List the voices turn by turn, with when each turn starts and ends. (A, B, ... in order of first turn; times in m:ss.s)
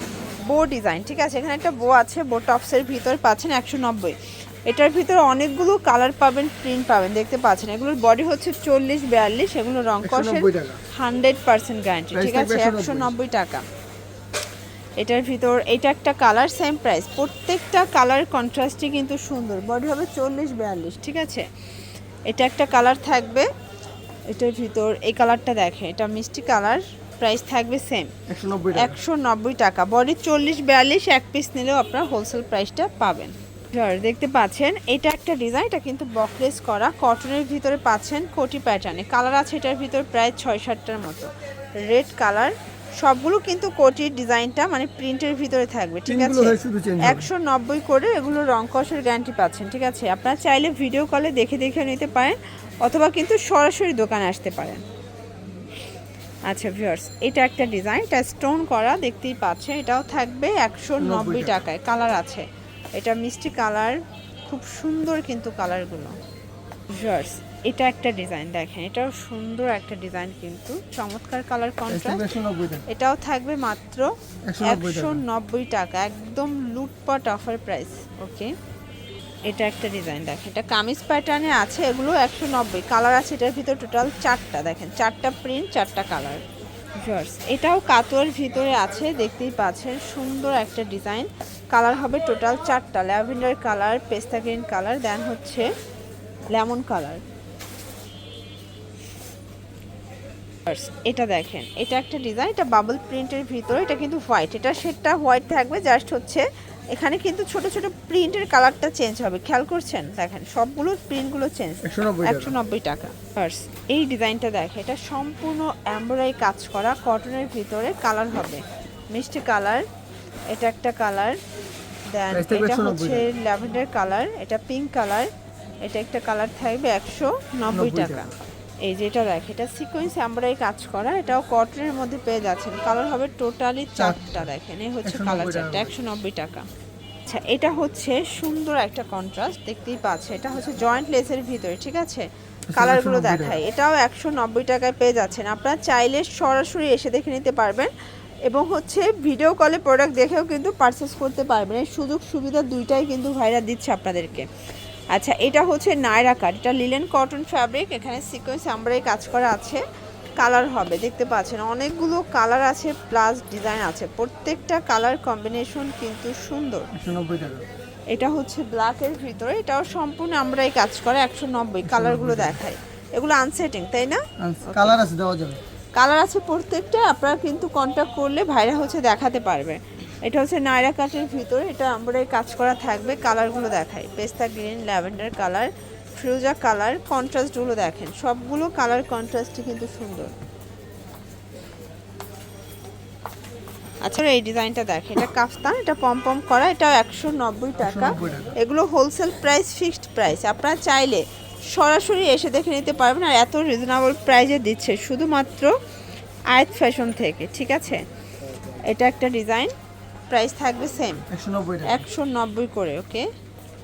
0:00.5-0:13.6 A
0:10.0-0:10.8 B
0:12.1-0:13.1 B
0:15.0-0:21.4 A
0:22.3-0:23.5 A
0:24.3-0:28.1 A
0:28.3-0:29.0 B
0:28.7-0:54.8 A
0:46.1-0:47.3 B
0:56.5-1:02.4 A
1:01.0-1:01.6 B
1:03.0-1:04.0 A
1:04.5-1:06.1 A
1:06.9-1:12.2 A
1:11.9-1:12.8 B
1:12.9-1:18.5 A
1:14.5-1:15.2 B
1:19.5-1:26.4 A
1:27.0-1:35.7 A
1:36.5-1:37.2 A
1:40.7-1:59.8 A
1:51.8-1:52.6 B
2:00.5-2:01.4 A
2:02.1-2:05.3 A
2:02.3-2:03.3 B
2:05.8-2:16.6 A
2:07.7-2:08.3 B
2:14.0-2:14.4 B
2:15.0-2:15.9 B
2:17.2-2:27.9 A
2:22.7-2:23.6 B
2:28.4-2:34.4 A
2:35.1-2:39.8 A
2:40.4-2:46.9 A
2:46.9-2:47.6 B
2:48.1-2:55.0 A
2:51.8-2:52.6 B
2:54.4-2:55.6 B
2:56.0-3:10.3 A
3:14.0-3:25.7 A
3:17.8-3:18.5 B
3:26.5-3:28.0 A
3:28.7-3:29.7 A
3:30.3-3:31.2 A
3:31.3-3:32.1 B
3:31.8-3:33.3 A